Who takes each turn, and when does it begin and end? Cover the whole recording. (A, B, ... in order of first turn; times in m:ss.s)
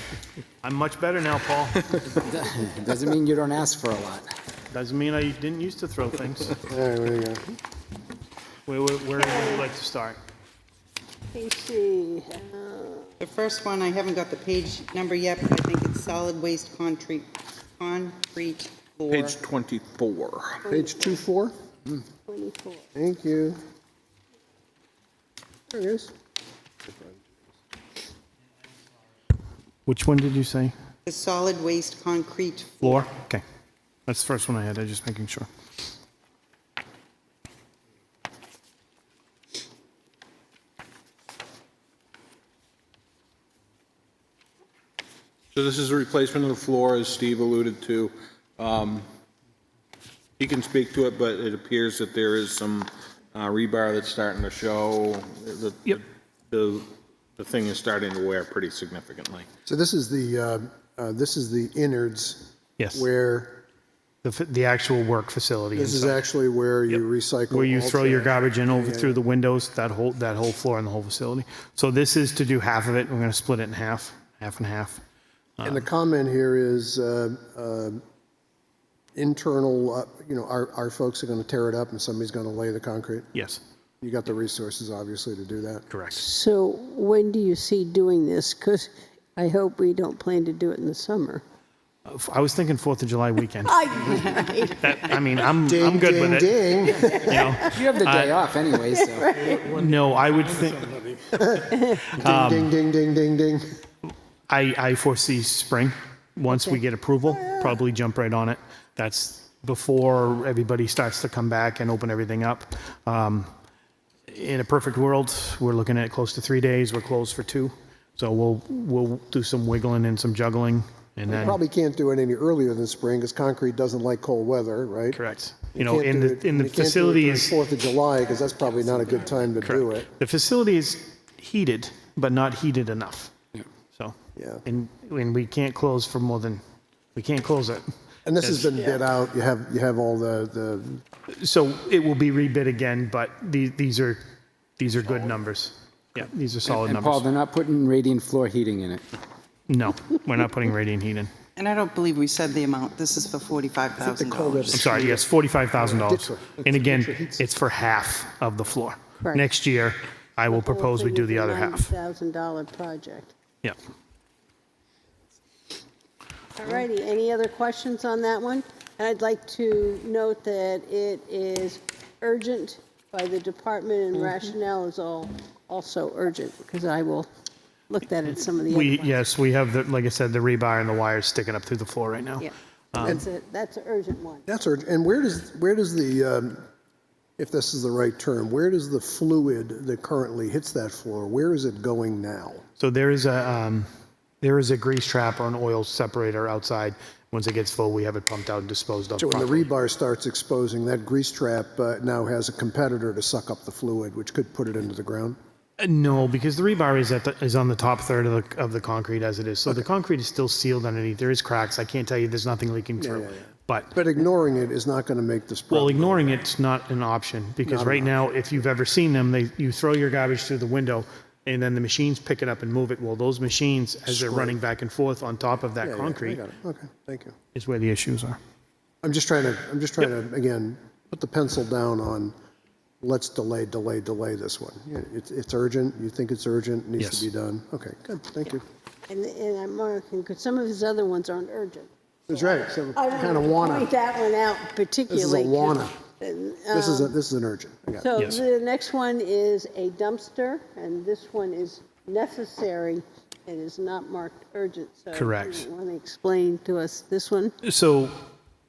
0:00.6-0:02.1 A
0:02.2-0:04.3 B
0:04.7-0:06.6 A
0:06.6-0:07.4 C
0:08.6-0:10.2 A
0:09.2-0:09.6 D
0:11.3-0:13.2 D
0:13.2-0:19.3 E
0:19.1-0:20.6 F
0:20.6-0:21.1 D
0:20.7-0:21.5 C
0:22.3-0:22.9 D
0:22.9-0:23.6 C
0:25.7-0:26.1 C
0:26.9-0:27.2 C
0:29.9-0:30.7 A
0:31.0-0:33.0 E
0:32.8-0:33.4 A
0:34.1-0:35.5 A
0:45.5-0:49.0 F
0:50.4-0:59.5 F
0:59.6-1:03.6 C
1:02.8-1:03.0 A
1:04.2-1:06.2 A
1:05.7-1:09.2 C
1:06.9-1:15.0 A
1:15.6-1:15.8 A
1:15.6-1:18.0 C
1:19.2-1:23.3 C
1:23.3-1:23.6 A
1:24.0-1:25.8 C
1:25.9-1:26.2 A
1:26.2-1:31.4 D
1:32.0-1:33.9 A
1:33.6-1:34.9 D
1:34.8-1:38.3 A
1:35.6-1:37.4 C
1:37.2-1:37.8 D
1:37.7-1:39.4 B
1:38.9-1:39.7 D
1:39.5-1:41.0 A
1:41.3-1:43.6 C
1:42.1-1:42.7 A
1:44.5-1:53.5 A
1:54.3-2:01.6 A
2:01.3-2:05.2 C
2:05.1-2:07.6 A
2:05.7-2:10.1 C
2:09.6-2:13.3 A
2:13.9-2:16.6 A
2:14.4-2:14.6 C
2:17.2-2:17.8 A
2:18.2-2:21.0 C
2:18.4-2:18.8 A
2:21.3-2:24.2 A
2:24.8-2:27.3 A
2:26.7-2:29.0 B
2:29.7-2:31.3 A
2:31.6-2:34.7 E
2:34.0-2:37.4 C
2:34.7-2:41.9 A
2:40.5-2:43.3 D
2:46.6-2:57.3 D
2:57.9-2:59.2 D
2:58.6-3:03.2 A
3:02.4-3:04.4 D
3:04.4-3:06.6 C
3:07.4-3:12.6 C
3:12.8-3:13.8 A
3:14.4-3:19.7 A
3:19.2-3:25.4 C
3:25.8-3:33.9 A
3:33.0-3:36.4 C
3:35.7-3:46.4 A
3:37.6-3:38.6 C
3:44.1-3:44.6 C
3:45.8-3:47.4 C
3:47.5-3:48.4 A
3:49.0-3:52.3 C
3:53.0-3:58.6 C
3:57.0-3:57.3 A
3:59.1-4:01.9 D
4:02.3-4:03.9 C
4:02.9-4:07.1 D
4:05.1-4:06.0 C
4:06.7-4:08.1 C
4:08.0-4:17.5 D
4:08.2-4:08.4 A
4:15.1-4:15.6 A
4:17.6-4:18.1 A